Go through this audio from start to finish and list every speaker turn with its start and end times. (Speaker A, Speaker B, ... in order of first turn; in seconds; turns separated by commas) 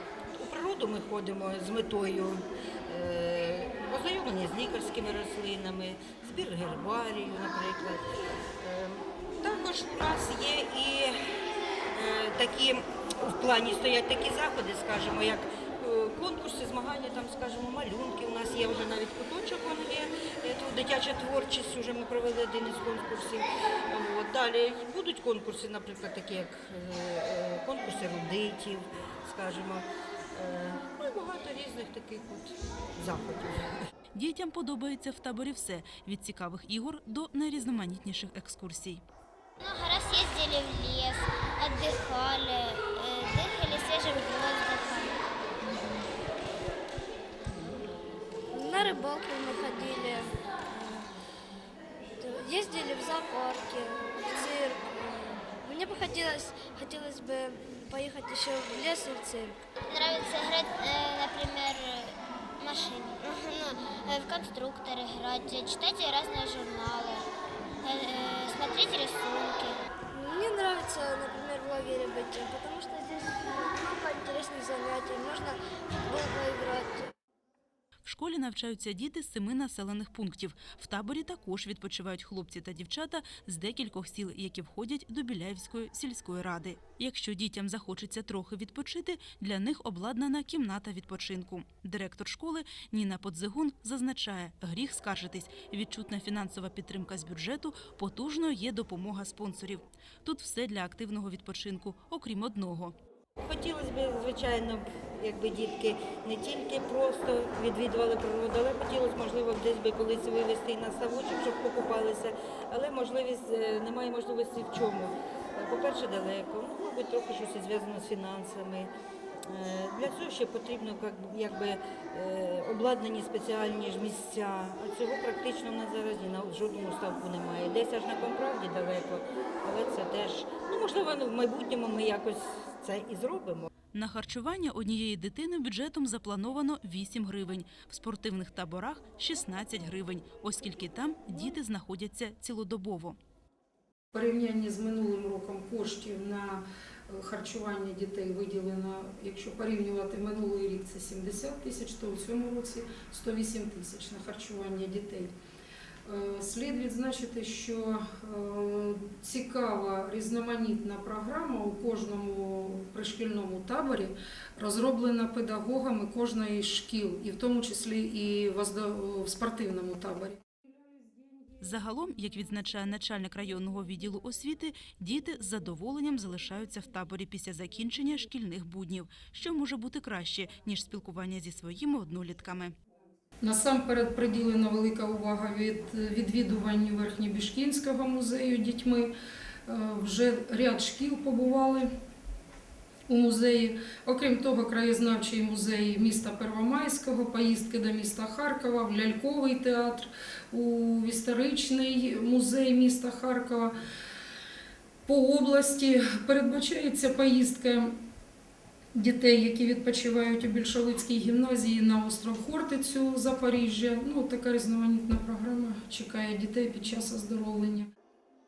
Speaker A: 0.4-8.1, Speaker A: 8.6-11.2, Speaker A: 11.9-33.8, Speaker B: 34.1-39.0, Speaker C: 39.6-45.7, Speaker D: 48.5-51.1, Speaker D: 52.2-59.6, Speaker C: 59.9-67.3, Speaker C: 67.8-69.9, Speaker D: 70.1-77.1, Speaker B: 78.0-103.0, Speaker A: 103.4-118.9, Speaker A: 119.5-133.7, Speaker B: 133.9-143.2, Speaker E: 144.1-155.3, Speaker E: 156.1-170.4, Speaker B: 171.6-182.8, Speaker E: 183.4-189.1, Speaker E: 189.7-191.9, Speaker E: 193.1-203.7, Speaker E: 205.1-207.9, Speaker E: 208.9-217.9